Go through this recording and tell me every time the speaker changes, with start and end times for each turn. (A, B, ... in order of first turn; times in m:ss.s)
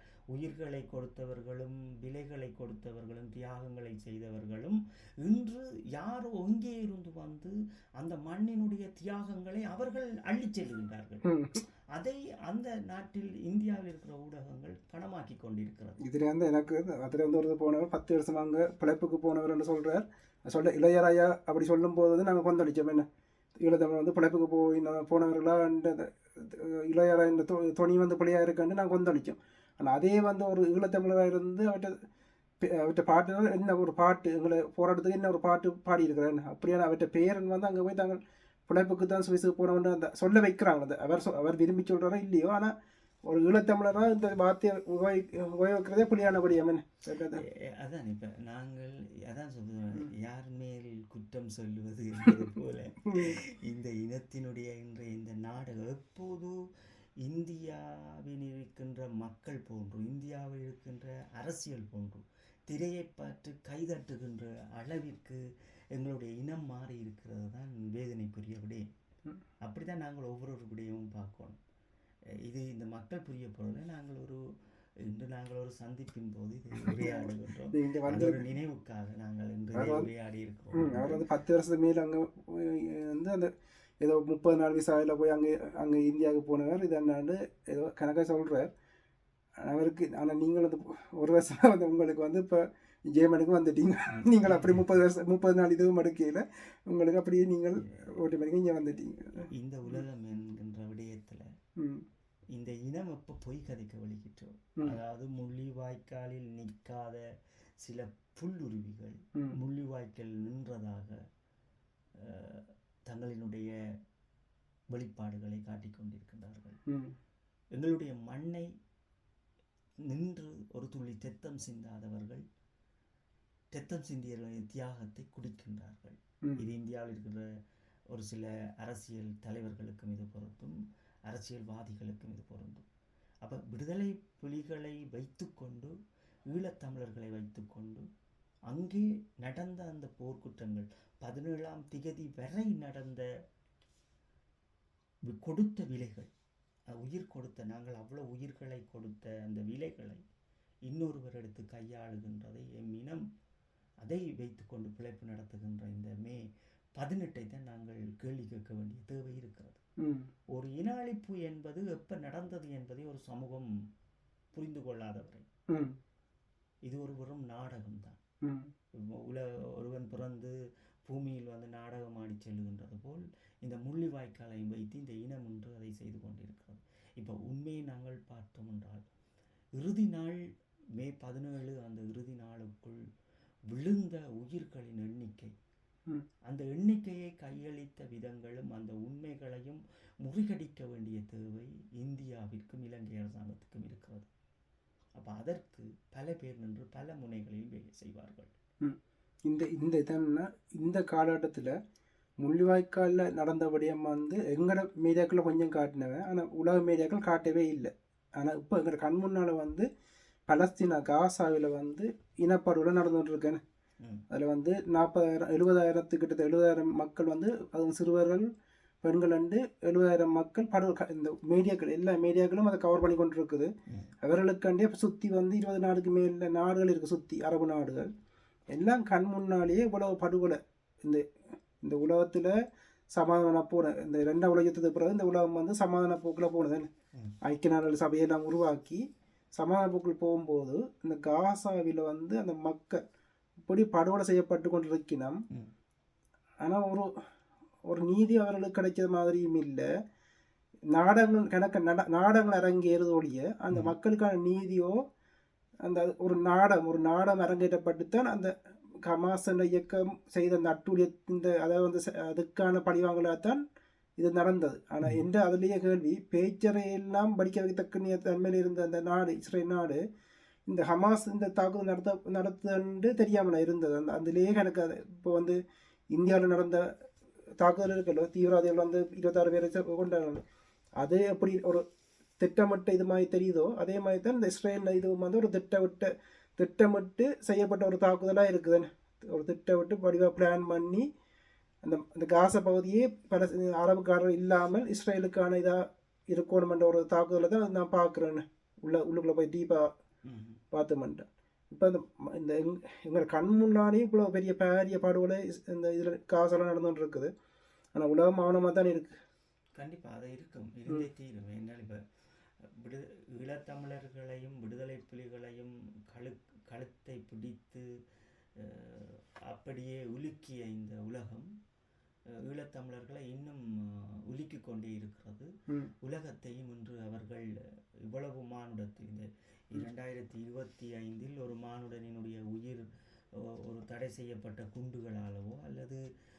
0:00.3-0:11.2 A
0:11.2-0:11.6 B
0:12.0-0:16.0 A
0:16.0-0:23.1 B
0:23.6-0:32.0 B
0:32.6-0:42.7 B
0:43.3-0:47.4 B
0:47.3-0:56.6 A
0:53.1-0:53.4 B
0:57.2-1:05.4 A
1:06.0-1:08.9 A
1:09.6-1:11.6 A
1:12.5-1:14.4 A
1:15.1-1:21.2 A
1:16.8-1:18.4 B
1:19.8-1:20.1 B
1:20.7-1:23.5 B
1:24.0-1:28.7 B
1:29.6-1:40.0 B
1:34.1-1:34.8 A
1:39.5-1:41.5 A
1:41.8-1:42.0 B
1:42.6-1:47.2 A
1:47.8-1:51.2 A
1:52.2-1:53.7 A
1:54.9-1:56.8 A
1:56.9-1:57.2 B
1:57.8-1:58.7 A
2:00.1-2:02.4 A
2:03.7-2:07.4 A
2:08.1-2:10.8 A
2:11.3-2:12.9 A
2:13.4-2:15.9 A
2:16.5-2:18.0 A
2:18.7-2:23.2 A
2:25.3-2:26.3 A
2:27.0-2:30.2 A
2:30.9-2:33.2 A
2:34.0-2:36.4 A
2:37.0-2:39.8 A
2:40.0-2:40.3 B
2:40.5-2:43.7 A
2:44.5-2:45.5 A
2:45.7-2:46.0 B
2:46.9-2:48.2 A
2:48.4-2:48.7 B
2:49.0-2:50.5 A
2:51.1-2:59.0 A
2:59.8-3:00.4 A
3:01.0-3:03.0 A
3:03.7-3:05.5 A
3:06.5-3:14.3 A
3:15.2-3:18.5 A
3:18.8-3:21.8 B
3:22.4-3:29.9 B
3:30.5-3:33.6 B
3:34.3-3:38.5 B
3:39.0-3:43.7 B
3:44.2-3:48.1 B
3:48.7-3:51.2 B
3:51.8-3:52.5 B
3:53.1-3:56.9 B
3:57.4-3:59.0 B
3:59.6-4:03.0 B
4:03.7-4:05.4 B
4:06.6-4:07.1 B
4:07.9-4:09.9 B
4:10.9-4:15.0 B
4:15.8-4:18.5 B
4:19.0-4:23.6 B
4:24.2-4:30.0 B
4:30.7-4:35.6 B
4:36.1-4:36.8 B
4:37.6-4:40.4 B
4:41.0-4:41.8 B
4:42.4-4:51.1 B
4:51.8-4:59.9 B
5:00.3-5:00.6 A
5:00.7-5:07.3 B
5:08.0-5:09.1 B
5:09.8-5:12.0 A
5:12.7-5:17.8 A
5:18.6-5:21.5 A
5:22.4-5:25.5 A
5:26.0-5:27.5 A
5:28.1-5:32.8 A
5:33.4-5:36.0 A